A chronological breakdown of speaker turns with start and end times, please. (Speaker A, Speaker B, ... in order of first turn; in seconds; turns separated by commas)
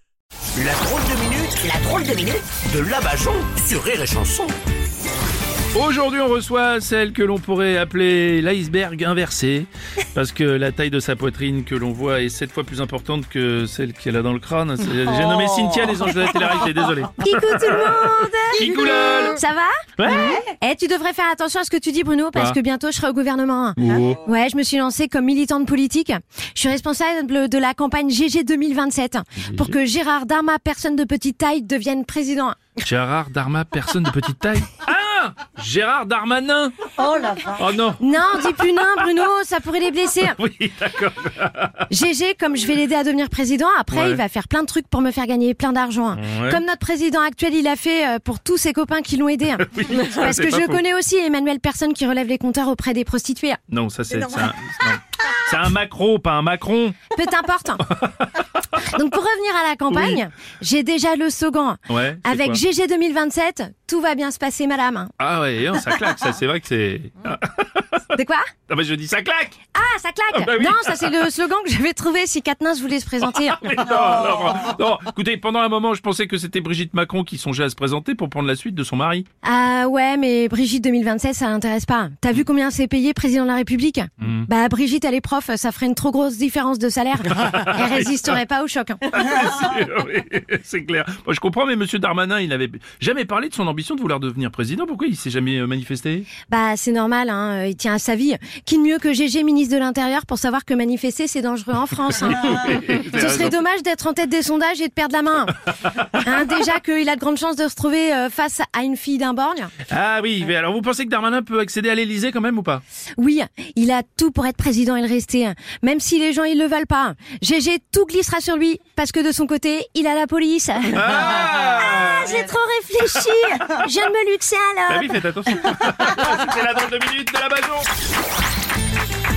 Speaker A: 0.6-4.6, Speaker B: 5.7-19.4, Speaker C: 17.2-32.7, Speaker B: 20.0-20.4, Speaker B: 23.8-24.2, Speaker B: 29.4-29.8, Speaker B: 32.8-36.8, Speaker C: 37.0-37.5, Speaker B: 37.5-38.0, Speaker C: 38.0-40.4, Speaker B: 40.2-41.9, Speaker C: 41.9-53.6, Speaker B: 43.9-44.2, Speaker B: 46.1-46.6, Speaker B: 49.6-50.8, Speaker B: 53.7-57.0, Speaker C: 57.1-57.9, Speaker B: 57.9-58.3, Speaker C: 58.8-65.1, Speaker B: 59.9-60.2, Speaker B: 61.9-62.6, Speaker B: 65.2-68.0, Speaker C: 68.2-68.5, Speaker B: 68.7-69.6, Speaker C: 69.7-73.6, Speaker B: 70.3-71.1, Speaker B: 73.3-79.3, Speaker C: 79.4-89.1, Speaker B: 84.2-84.5, Speaker B: 87.3-88.1, Speaker B: 89.1-96.3, Speaker C: 96.5-109.7, Speaker B: 102.3-103.5, Speaker B: 109.9-112.8, Speaker C: 113.2-121.0, Speaker B: 120.9-122.4, Speaker C: 121.8-126.0, Speaker B: 124.9-127.9